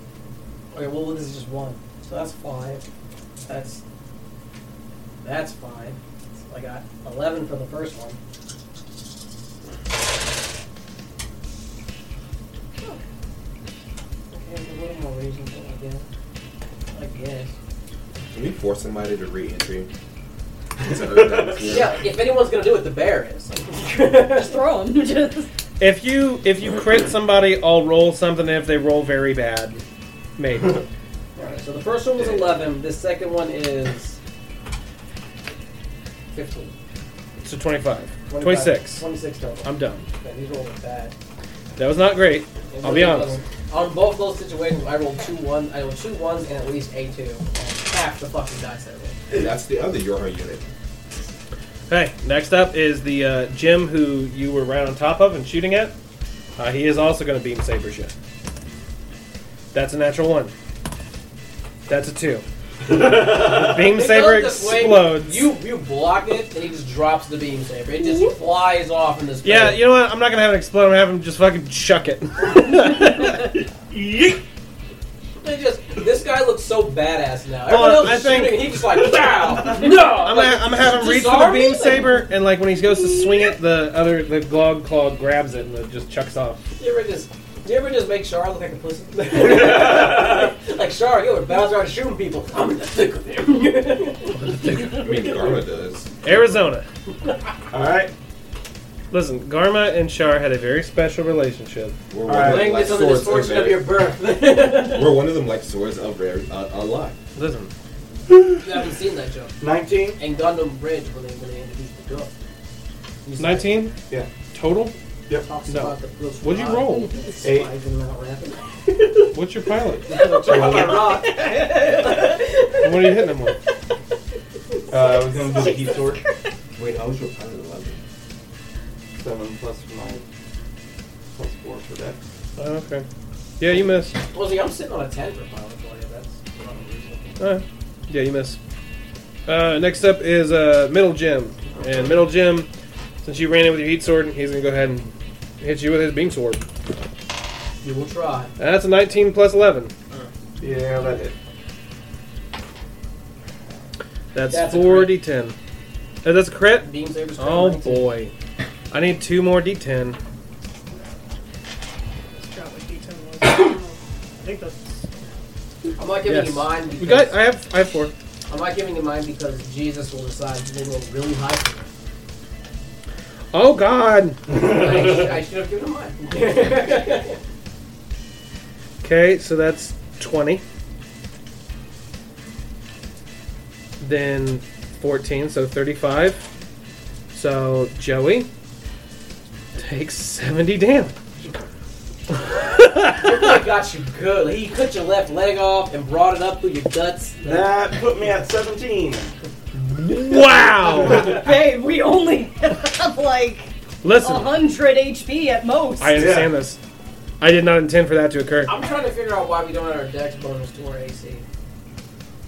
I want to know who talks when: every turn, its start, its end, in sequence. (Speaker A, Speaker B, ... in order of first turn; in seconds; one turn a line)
Speaker A: 0.7-2.8
Speaker A: 3.4-3.8
Speaker A: 5.2-8.2
Speaker A: 14.3-16.1
Speaker A: 16.9-17.5
Speaker B: 18.3-19.9
Speaker B: 20.8-21.9
Speaker C: 21.0-21.7
Speaker A: 21.6-24.6
Speaker D: 24.3-25.5
Speaker E: 25.8-29.8
Speaker E: 30.4-30.9
Speaker A: 31.4-34.2
Speaker B: 32.2-32.4
Speaker A: 36.3-36.7
Speaker E: 37.4-39.0
Speaker A: 38.3-41.1
Speaker E: 39.6-40.1
Speaker E: 41.8-43.4
Speaker A: 42.7-49.2
Speaker B: 49.3-50.7
Speaker E: 51.9-55.9
Speaker E: 56.6-58.1
Speaker E: 59.7-60.5
Speaker E: 61.9-65.5
Speaker A: 63.8-69.8
Speaker E: 69.4-73.5
Speaker C: 73.9-74.4
Speaker A: 75.4-82.1
Speaker E: 77.7-78.8
Speaker C: 79.1-79.5
Speaker E: 79.6-86.6
Speaker A: 86.8-95.6
Speaker E: 94.3-95.0
Speaker B: 94.7-96.2
Speaker E: 96.2-96.8
Speaker C: 97.7-98.1
Speaker E: 99.1-102.0
Speaker B: 102.1-104.0
Speaker C: 102.3-102.6
Speaker A: 102.3-105.2
Speaker B: 104.7-107.2
Speaker E: 107.3-107.7
Speaker A: 108.6-109.6
Speaker C: 109.6-110.2
Speaker A: 110.2-112.3
Speaker A: 113.2-113.8
Speaker E: 113.4-114.0
Speaker E: 114.5-114.9
Speaker A: 115.3-119.3
Speaker E: 115.7-117.1
Speaker D: 116.9-117.3
Speaker C: 117.4-117.7
Speaker E: 119.3-120.2
Speaker A: 120.0-122.3
Speaker C: 120.4-121.1
Speaker D: 120.5-123.1
Speaker E: 122.8-123.6
Speaker D: 124.9-126.5
Speaker C: 124.9-126.2
Speaker B: 126.8-128.0
Speaker C: 129.2-130.2
Speaker C: 131.3-132.2
Speaker E: 132.6-133.1
Speaker E: 133.6-134.2
Speaker A: 134.1-137.5
Speaker E: 137.4-138.6
Speaker E: 139.5-142.7
Speaker E: 143.2-146.6
Speaker A: 147.8-148.5
Speaker E: 148.6-149.9
Speaker C: 150.6-151.3
Speaker E: 154.3-155.5
Speaker A: 154.5-155.2
Speaker E: 156.2-158.3
Speaker A: 156.8-158.2
Speaker E: 158.9-160.2
Speaker D: 162.2-165.3
Speaker A: 166.0-167.4
Speaker E: 166.2-168.1
Speaker A: 168.5-171.9
Speaker E: 173.5-174.6
Speaker A: 174.5-177.4
Speaker E: 179.0-180.6
Speaker E: 184.0-186.4
Speaker E: 187.3-188.5
Speaker E: 189.8-191.1
Speaker E: 192.3-193.5
Speaker A: 193.1-197.8
Speaker C: 197.4-199.3
Speaker E: 199.8-201.4
Speaker D: 200.9-206.3
Speaker E: 204.0-204.7
Speaker E: 206.0-206.8
Speaker C: 206.2-206.5
Speaker E: 207.4-208.7
Speaker A: 208.7-211.4